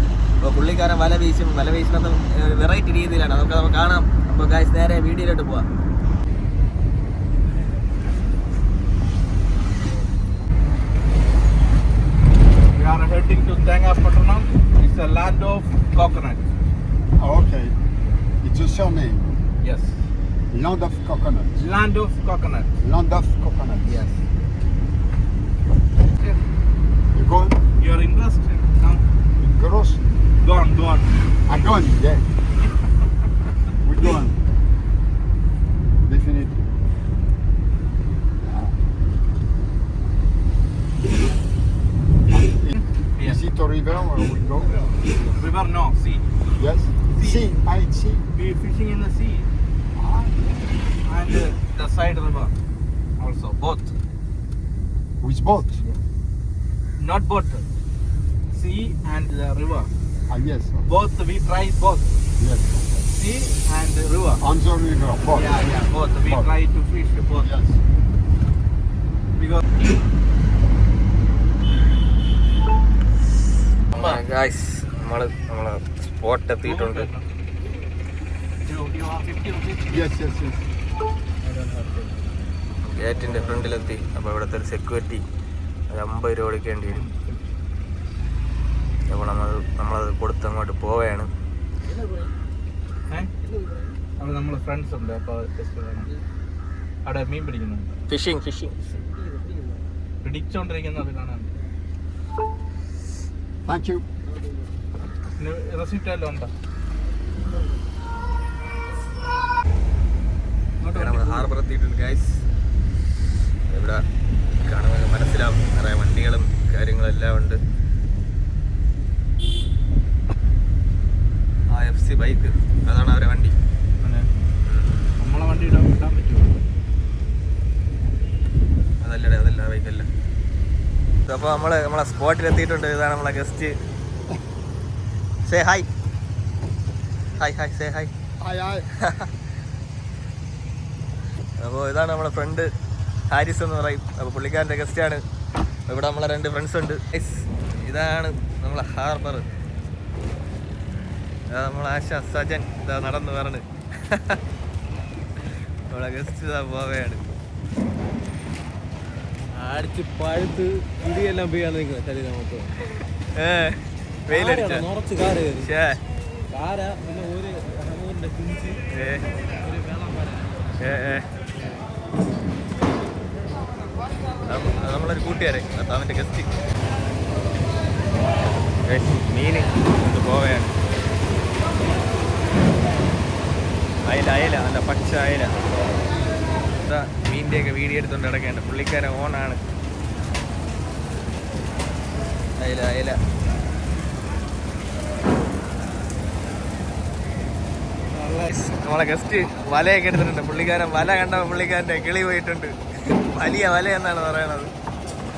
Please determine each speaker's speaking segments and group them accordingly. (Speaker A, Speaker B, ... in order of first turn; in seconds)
Speaker A: 0.4-5.7, 73.9-77.1, 82.8-85.2, 85.9-87.0, 89.1-91.3, 98.1-98.7, 110.9-112.4, 113.7-114.0, 114.6-117.6, 121.7-125.1, 129.0-130.1, 131.2-133.7, 135.4-135.9, 137.3-138.1, 139.0-139.3, 141.6-142.7, 143.3-145.2, 145.9-149.4, 151.5-154.4, 155.9-157.3, 163.3-164.9, 165.6-166.0, 168.9-169.4, 170.8-171.2, 174.4-176.5, 178.8-180.7, 184.1-185.5, 186.8-189.6, 192.6-193.2, 198.4-204.7
Speaker B: 12.7-16.4, 19.6-19.9, 21.6-22.7, 23.8-24.1, 26.0-26.4, 27.8-29.0, 30.4-31.2, 44.8-46.2, 47.1-47.6, 48.3-49.5, 51.0-52.5, 53.2-53.9, 57.0-57.7, 58.5-59.9, 60.8-62.1, 63.1-64.4, 65.3-67.5, 69.4-69.6, 76.6-77.2, 78.6-80.0, 86.9-87.5, 94.2-96.1, 97.0-97.9, 100.2-101.5, 105.4-106.5, 110.8-111.5, 125.2-126.6, 198.2-198.5
Speaker C: 17.2-17.7, 18.4-19.3, 20.5-21.6, 22.8-24.1, 27.1-27.6, 29.4-30.0, 31.5-32.3, 33.8-34.4, 36.0-36.6, 38.4-38.8, 42.3-45.4, 46.5-48.2, 50.0-50.3, 55.2-55.8, 60.3-60.8, 62.4-63.0, 64.4-66.5, 67.3-67.8, 79.9-80.6, 103.7-104.0, 138.4-138.9
Speaker D: 81.4-82.1, 83.2-83.6, 91.8-92.3, 93.4-94.0, 98.8-99.9, 104.3-104.6, 159.5-162.7, 164.3-165.7, 166.5-168.8, 169.6-170.5